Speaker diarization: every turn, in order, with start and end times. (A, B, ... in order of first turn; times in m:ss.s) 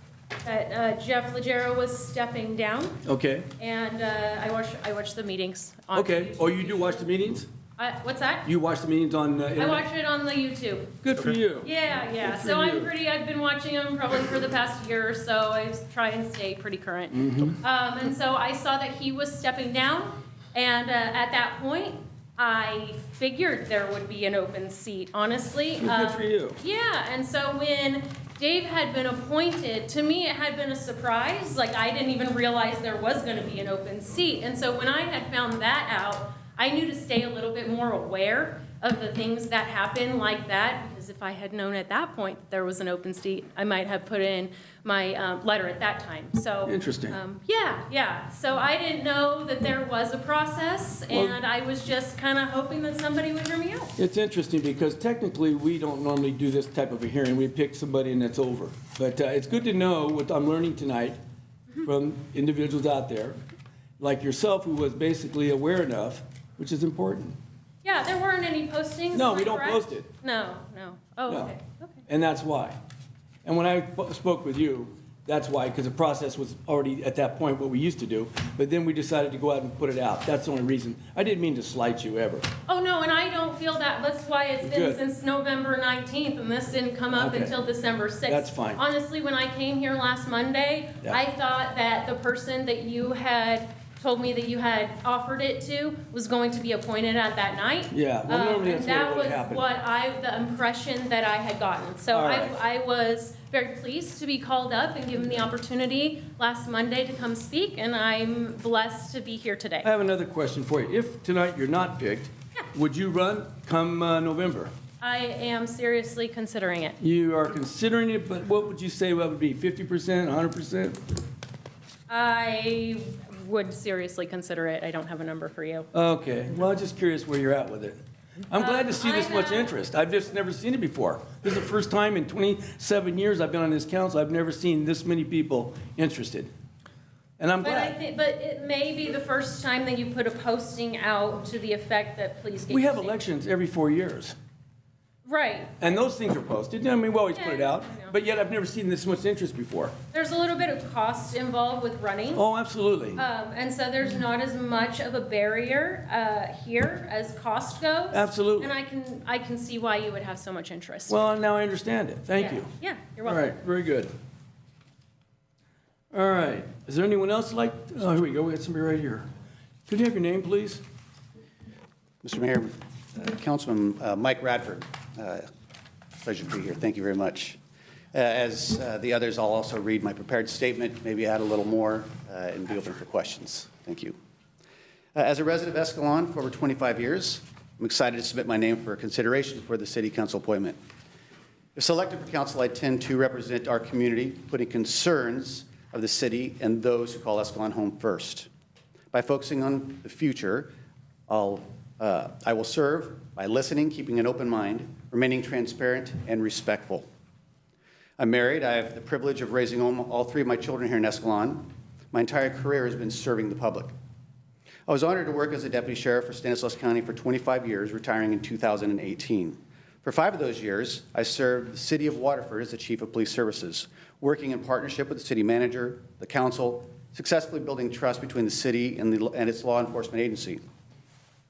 0:00.4-0:03.0 A
0:03.0-0:03.5 B
0:03.6-0:07.1 A
0:05.9-0:07.5 B
0:07.8-0:08.5 A
0:08.4-0:09.9 B
0:09.6-0:11.1 A
0:11.0-0:12.9 B
0:11.6-0:53.9 A
0:17.1-0:17.6 B
0:25.8-0:26.6 B
0:46.7-0:47.2 B
0:51.1-0:51.4 B
0:54.0-1:01.2 B
1:01.8-1:03.4 B
1:04.0-1:07.4 B
1:07.8-1:12.0 A
1:09.1-1:10.1 B
1:12.1-1:12.8 B
1:13.4-1:22.4 B
1:22.7-1:49.9 A
1:24.6-1:25.0 B
1:27.1-1:27.6 B
1:28.3-1:28.8 B
1:37.9-1:39.7 B
1:42.1-1:42.6 B
1:49.8-1:54.7 B
1:55.0-1:57.0 A
1:57.0-2:01.0 B
2:02.1-2:05.9 A
2:05.9-2:08.0 B
2:08.5-2:16.5 B
2:08.6-2:09.7 A
2:17.4-2:18.0 B
2:17.6-2:23.1 A
2:22.7-2:24.4 B
2:25.2-2:25.8 A
2:25.8-2:30.0 B
2:27.3-2:28.2 A
2:30.1-2:32.4 A
2:32.4-2:33.2 B
2:33.2-2:41.2 A
2:38.1-2:38.7 B
2:41.1-2:42.7 B
2:42.4-2:43.5 A
2:43.2-2:44.1 B
2:46.1-2:49.3 B
2:49.9-2:50.8 B
2:52.2-2:55.5 C
2:56.2-2:57.6 C
2:58.1-3:04.2 C
3:05.2-3:10.8 C
3:11.8-3:18.5 C
3:19.1-3:20.7 C
3:21.3-3:27.1 C
3:28.2-3:33.9 C
3:34.9-3:50.6 C